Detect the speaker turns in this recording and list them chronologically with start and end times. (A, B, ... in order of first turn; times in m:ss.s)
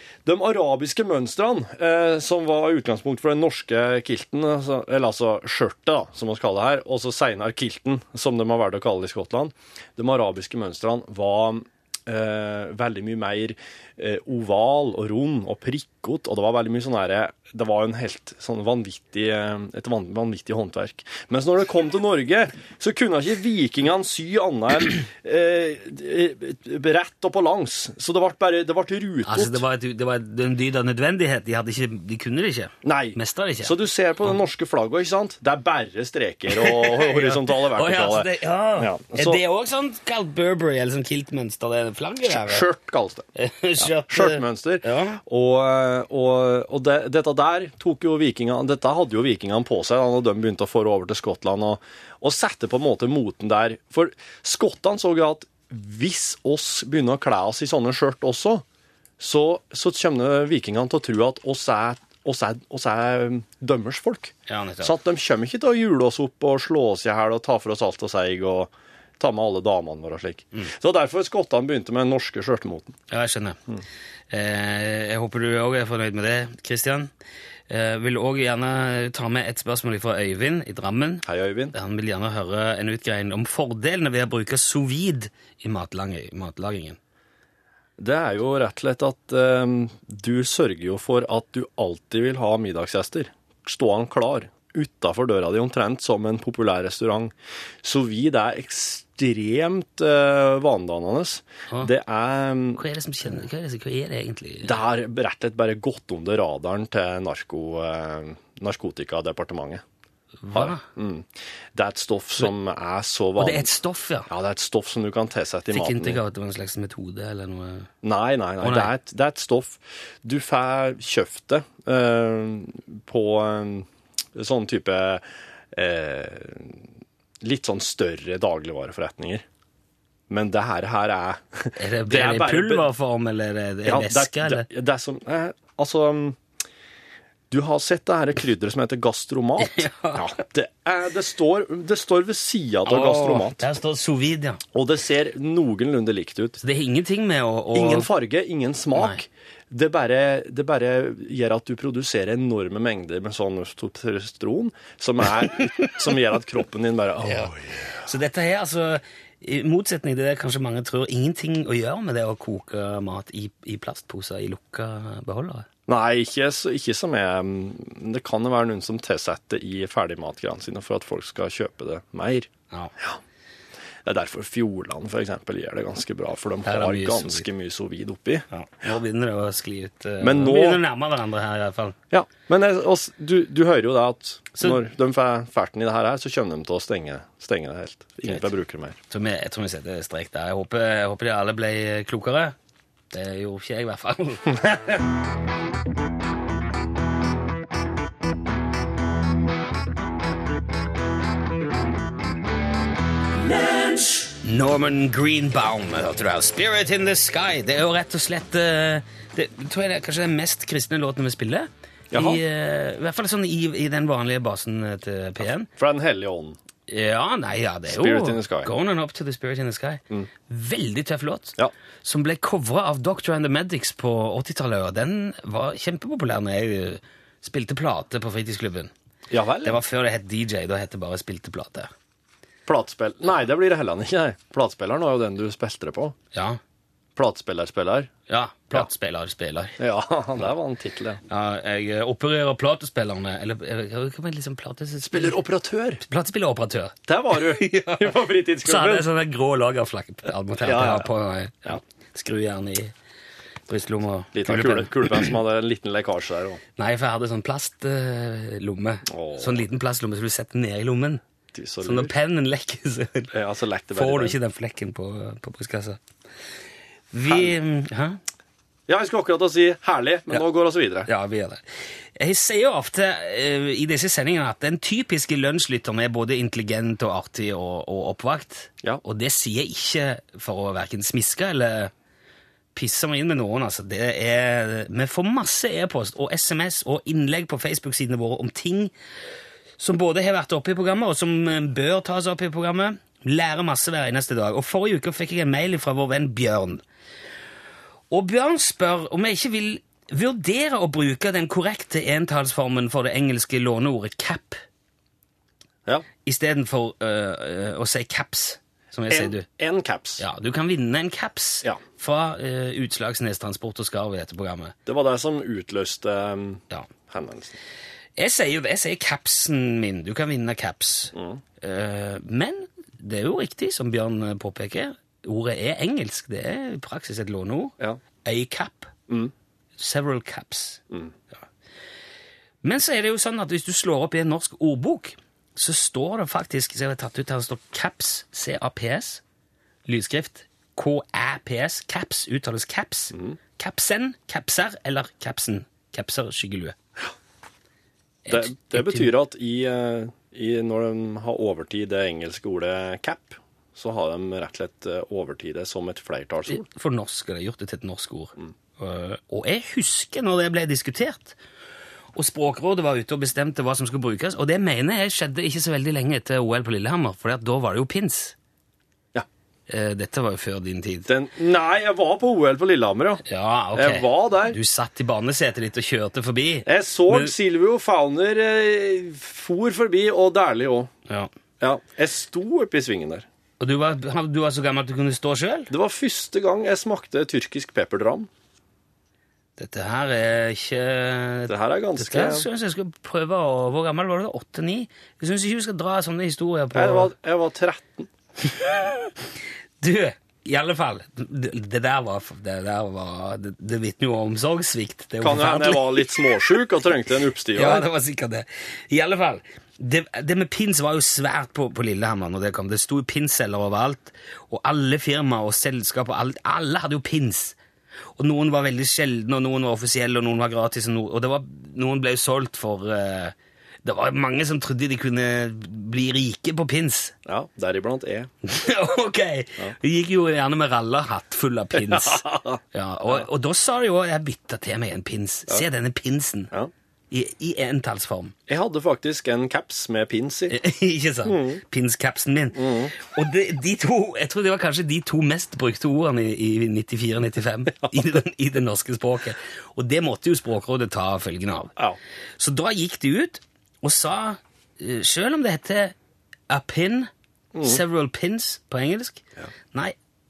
0:00.2-0:29.6 A
0:29.2-0:33.8 B
0:32.8-0:39.4 A
0:36.5-0:42.7 B
0:42.2-0:43.3 A
0:43.4-0:45.2 B
0:43.8-0:58.6 A
0:59.2-1:13.0 A
1:04.5-1:04.9 B
1:13.1-1:13.6 B
1:14.3-1:17.1 B
1:17.7-1:27.0 B
1:21.2-1:21.7 A
1:28.0-1:42.8 A
1:42.8-1:44.8 B
1:44.6-1:49.8 A
1:50.4-1:50.8 B
1:50.5-1:53.7 A
1:53.4-1:54.3 B
1:54.3-1:56.2 A
1:55.7-1:57.9 B
1:58.0-2:06.8 A
1:58.6-1:58.9 B
2:07.4-2:09.4 A
2:10.3-2:12.9 A
2:11.8-2:14.6 B
2:13.8-2:16.4 A
2:17.5-2:23.6 A
2:19.6-2:20.2 B
2:22.8-2:24.6 B
2:24.7-2:26.6 A
2:26.6-2:28.1 B
2:27.7-2:37.7 A
2:29.0-2:29.2 B
2:37.2-2:37.5 B
2:38.0-2:45.7 B
2:45.9-2:53.2 A
2:54.0-2:58.4 A
2:56.6-2:57.5 B
2:58.5-3:02.0 B
3:00.2-3:00.8 A
3:02.1-3:09.0 A
3:09.1-3:12.5 B
3:13.1-3:15.0 B
3:24.1-3:35.7 B
3:32.1-3:32.4 A
3:35.7-3:36.6 A
3:36.9-3:48.9 B
3:37.9-3:38.7 A
3:49.3-3:49.8 A
3:49.6-3:51.9 B
3:52.7-3:56.2 A
3:56.3-3:56.6 B
3:57.2-3:58.1 A
3:58.3-3:59.8 B
3:59.8-4:01.2 A
4:01.3-4:05.4 B
4:05.0-4:06.0 A
4:06.0-4:12.9 B
4:07.1-4:09.1 A
4:10.6-4:11.1 A
4:13.7-4:15.3 B
4:14.3-4:16.6 A
4:16.8-4:21.2 B
4:19.1-4:19.6 A
4:21.5-4:22.1 A
4:21.8-4:23.3 B
4:23.3-4:24.4 A
4:23.9-4:26.0 B
4:27.1-4:28.2 B
4:27.3-4:27.5 A
4:28.9-4:31.1 A
4:31.1-4:31.6 B
4:32.2-4:41.9 B
4:42.7-4:48.9 B
4:49.8-4:56.8 B
4:58.1-5:04.6 B
5:06.2-5:09.5 B
5:09.1-5:10.2 A
5:10.2-5:14.8 B
5:14.8-5:17.6 A
5:18.2-5:28.9 B
5:21.1-5:21.4 A
5:29.8-5:30.8 B
5:32.6-5:39.2 B
5:39.8-5:46.8 B
5:43.1-5:43.4 A
5:48.2-5:49.1 B
5:48.3-5:56.6 A
5:56.5-6:01.4 B
6:02.1-6:08.3 B
6:09.7-6:11.1 B
6:11.1-6:13.2 A
6:13.2-6:17.3 B
6:13.7-6:14.6 A
6:16.6-6:20.9 A
6:21.6-6:23.2 A
6:23.6-6:25.7 B
6:25.7-6:28.3 A
6:29.6-6:37.1 B
6:31.5-6:32.5 A
6:36.7-6:38.1 A
6:39.8-6:46.2 B
6:45.2-6:47.9 A
6:47.5-6:57.6 B
6:58.2-7:07.1 B
7:07.2-7:08.3 A
7:08.4-7:16.5 B
7:11.7-7:13.2 A
7:17.1-7:18.3 B
7:18.5-7:20.6 A
7:20.5-7:31.7 B
7:21.2-7:21.6 A
7:22.5-7:22.9 A
7:32.4-7:35.9 B
7:36.5-7:37.1 B
7:37.5-7:37.8 A
7:37.6-7:39.9 B